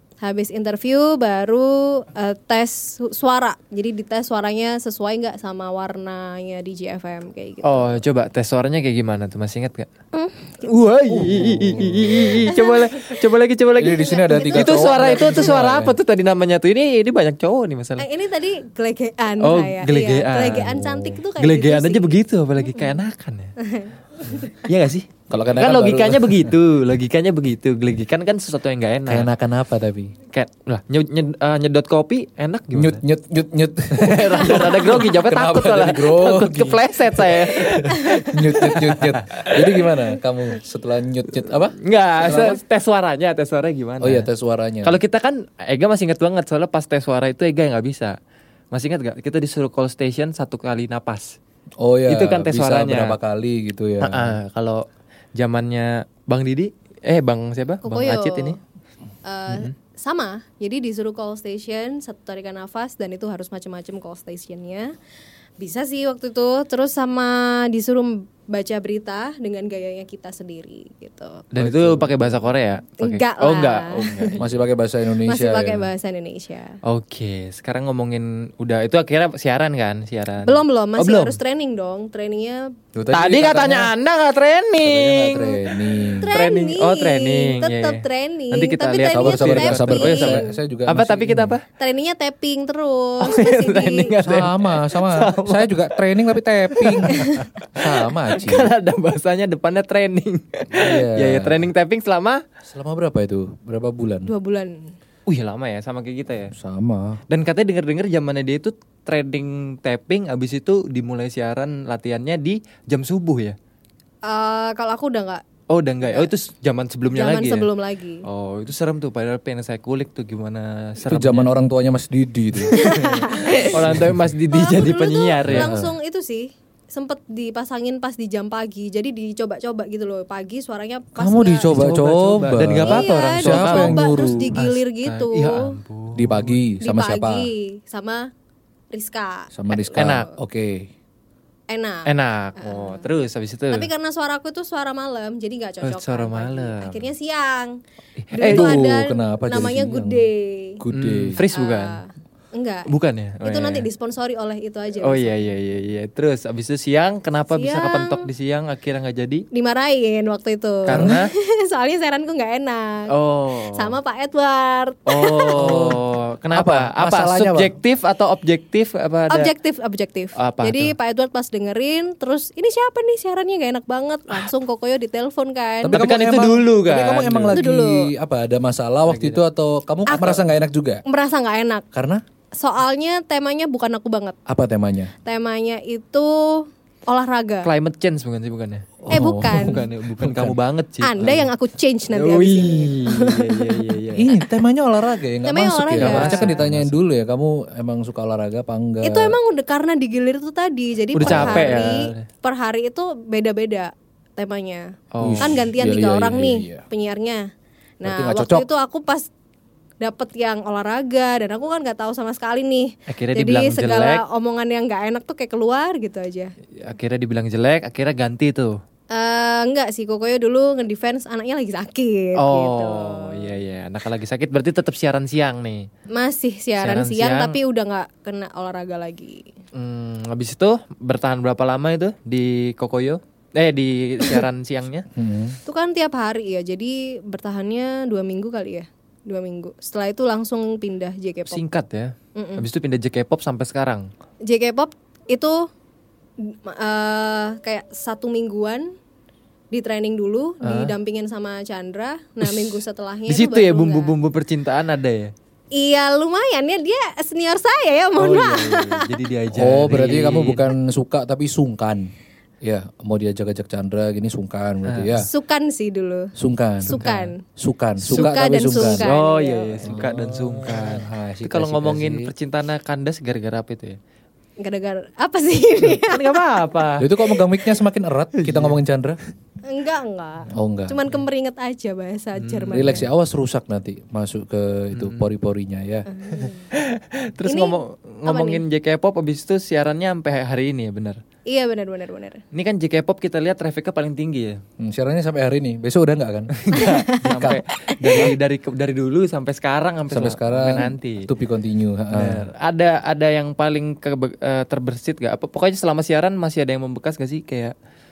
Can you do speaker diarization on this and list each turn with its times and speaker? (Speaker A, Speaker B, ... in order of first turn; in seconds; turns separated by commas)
Speaker A: 0.2-8.0, Speaker B: 7.6-9.9, Speaker A: 10.1-10.7, Speaker B: 10.6-18.1, Speaker C: 11.1-12.5, Speaker A: 12.4-13.2, Speaker C: 13.8-16.0, Speaker A: 13.9-15.6, Speaker A: 18.0-22.2, Speaker B: 19.4-23.5, Speaker A: 22.7-23.0, Speaker A: 23.6-24.4, Speaker B: 24.5-29.3, Speaker C: 25.3-26.5, Speaker C: 29.1-30.1, Speaker B: 30.3-33.0, Speaker C: 32.7-42.6, Speaker B: 33.9-39.9, Speaker B: 41.8-44.3, Speaker C: 44.0-45.0, Speaker B: 44.8-48.1, Speaker B: 48.7-51.4, Speaker C: 51.8-54.4, Speaker B: 52.0-53.2, Speaker B: 54.0-54.8, Speaker B: 55.4-58.6, Speaker A: 57.8-58.6, Speaker A: 59.2-64.9, Speaker A: 65.6-71.5, Speaker B: 71.5-74.6, Speaker C: 71.5-72.5, Speaker A: 73.0-74.4, Speaker C: 74.4-75.9, Speaker A: 75.2-76.7, Speaker B: 76.8-81.4, Speaker A: 80.4-82.7, Speaker C: 82.9-83.9, Speaker B: 83.1-85.5, Speaker C: 84.8-86.3, Speaker A: 86.2-90.5, Speaker B: 86.3-91.6, Speaker C: 89.1-91.6, Speaker A: 91.8-94.1, Speaker B: 93.2-95.9, Speaker C: 94.2-98.7, Speaker B: 96.7-102.4, Speaker A: 97.1-97.5, Speaker C: 100.7-101.7, Speaker C: 102.7-104.3, Speaker A: 104.2-104.9, Speaker B: 105.3-106.5, Speaker C: 106.5-107.2, Speaker B: 107.3-113.5, Speaker A: 114.2-115.4, Speaker B: 115.7-117.7, Speaker A: 117.1-118.2, Speaker B: 118.2-121.5, Speaker C: 121.0-124.1, Speaker B: 122.6-125.7, Speaker A: 122.7-123.8, Speaker A: 124.5-131.7, Speaker C: 125.5-125.9, Speaker C: 131.2-134.6, Speaker B: 131.7-136.6, Speaker A: 132.8-135.7, Speaker C: 136.2-137.5, Speaker A: 136.8-138.3, Speaker A: 138.9-140.3, Speaker C: 139.5-140.9, Speaker B: 139.9-140.3, Speaker A: 141.7-143.1, Speaker B: 142.1-143.9, Speaker A: 143.7-147.8, Speaker B: 145.8-147.1, Speaker B: 148.2-148.8, Speaker A: 148.3-150.8, Speaker C: 148.4-150.2, Speaker C: 150.8-151.4, Speaker B: 150.9-152.0, Speaker A: 151.5-155.3, Speaker B: 152.9-153.9, Speaker B: 155.0-159.4, Speaker A: 157.5-158.3, Speaker A: 159.5-165.6, Speaker B: 160.8-161.3, Speaker C: 160.9-161.2, Speaker B: 163.1-163.9, Speaker B: 165.1-169.5, Speaker C: 165.6-167.7, Speaker A: 169.3-176.0, Speaker B: 170.3-170.9, Speaker C: 175.8-181.0, Speaker B: 175.9-177.6, Speaker A: 177.5-178.1, Speaker B: 179.1-179.4, Speaker A: 180.1-180.4, Speaker A: 181.0-181.8, Speaker C: 181.9-182.2, Speaker A: 182.6-184.4, Speaker C: 184.5-185.1, Speaker A: 185.2-187.7, Speaker B: 187.6-191.5, Speaker C: 189.0-190.6, Speaker A: 189.1-189.8, Speaker A: 191.0-193.8, Speaker B: 192.1-194.4, Speaker C: 194.2-199.4, Speaker A: 195.4-196.6, Speaker B: 196.0-196.9, Speaker A: 199.0-207.4, Speaker B: 201.1-202.2, Speaker C: 201.2-202.0, Speaker B: 205.1-205.5, Speaker C: 205.2-206.8, Speaker A: 208.0-209.3, Speaker C: 208.0-208.7, Speaker A: 210.0-216.5, Speaker B: 213.1-214.2, Speaker B: 216.8-218.8, Speaker A: 219.1-223.5, Speaker B: 222.4-225.9, Speaker A: 226.1-229.5, Speaker B: 226.8-227.6, Speaker B: 229.7-235.1, Speaker C: 235.1-235.6, Speaker A: 235.7-241.6, Speaker B: 241.5-244.1, Speaker A: 242.3-242.7, Speaker A: 244.4-245.7, Speaker A: 246.4-248.9, Speaker A: 249.7-254.2, Speaker B: 250.6-250.9, Speaker B: 252.4-255.3, Speaker A: 255.7-259.2, Speaker B: 258.1-260.7, Speaker C: 259.5-262.1, Speaker C: 262.6-265.3, Speaker B: 264.8-265.1, Speaker A: 265.2-266.3, Speaker C: 266.4-269.1, Speaker B: 266.8-267.3, Speaker A: 266.9-267.4, Speaker A: 268.0-270.1, Speaker B: 268.1-274.0, Speaker C: 269.9-272.3, Speaker A: 274.6-276.4, Speaker B: 276.0-277.1, Speaker C: 277.0-279.2, Speaker B: 278.3-278.8, Speaker A: 279.6-283.1, Speaker C: 280.5-281.0, Speaker B: 282.4-283.1, Speaker C: 282.7-286.1, Speaker B: 284.9-285.2, Speaker A: 286.1-286.7, Speaker B: 286.4-291.2, Speaker A: 287.4-288.6, Speaker A: 291.5-292.4, Speaker B: 292.5-294.6, Speaker C: 294.8-296.6, Speaker B: 296.6-301.3, Speaker A: 296.7-297.5, Speaker C: 297.3-298.4, Speaker C: 300.1-302.5, Speaker B: 302.1-307.7